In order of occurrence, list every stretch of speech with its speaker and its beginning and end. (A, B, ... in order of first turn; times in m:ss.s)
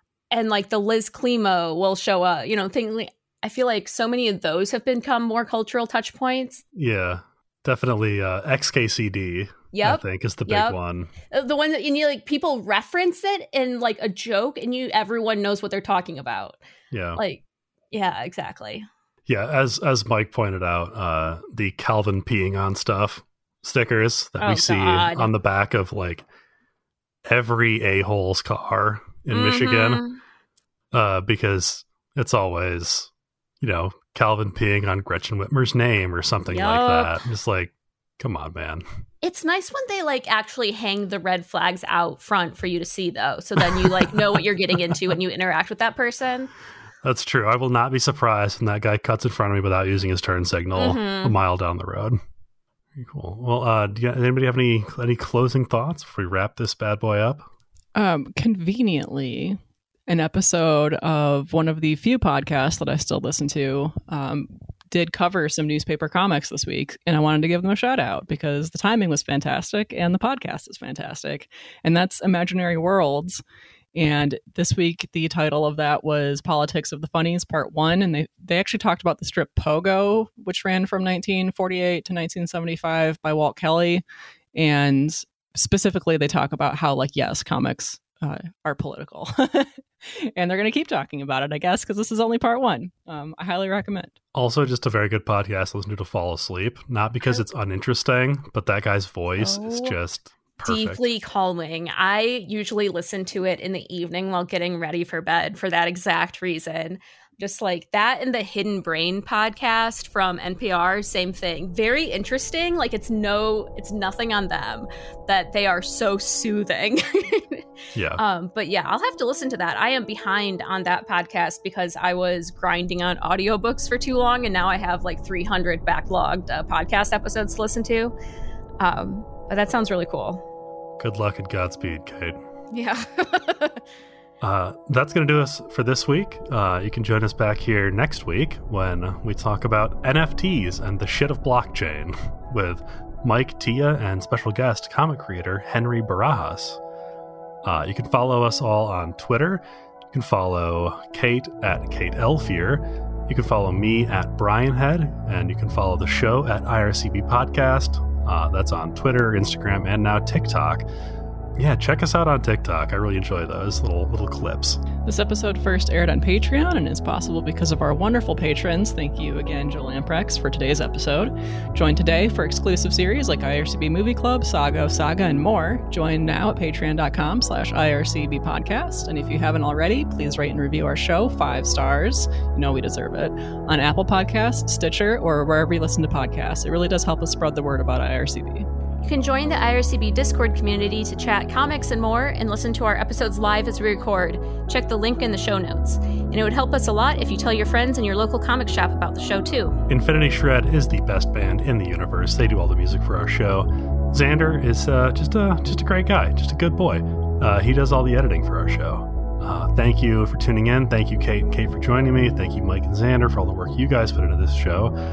0:00.3-0:06.6 A
0:06.7-0:11.1 B
0:09.7-0:10.8 A
0:11.3-0:16.6 A
0:16.9-0:17.2 B
0:17.2-0:18.9 A
0:19.3-0:26.3 B
0:24.4-0:25.3 A
0:27.3-0:30.0 B
0:29.3-0:30.2 A
0:30.9-0:38.8 B
0:36.5-0:37.2 A
0:39.2-0:46.5 A
0:47.0-0:52.2 B
0:50.8-0:51.4 A
0:53.0-0:57.5 B
0:58.0-1:13.4 C
1:14.0-1:24.0 C
1:24.6-1:34.1 C
1:34.3-1:41.0 B
1:39.4-1:40.0 A
1:40.6-1:57.6 A
1:58.0-1:58.2 B
1:58.2-2:08.1 A
2:08.8-2:10.4 A
2:11.0-2:12.4 B
2:12.7-2:13.8 A
2:14.4-2:26.8 B
2:27.6-2:40.9 B
2:41.6-2:44.8 B
2:45.0-3:08.7 C
3:09.0-3:19.8 A
3:19.9-3:34.9 B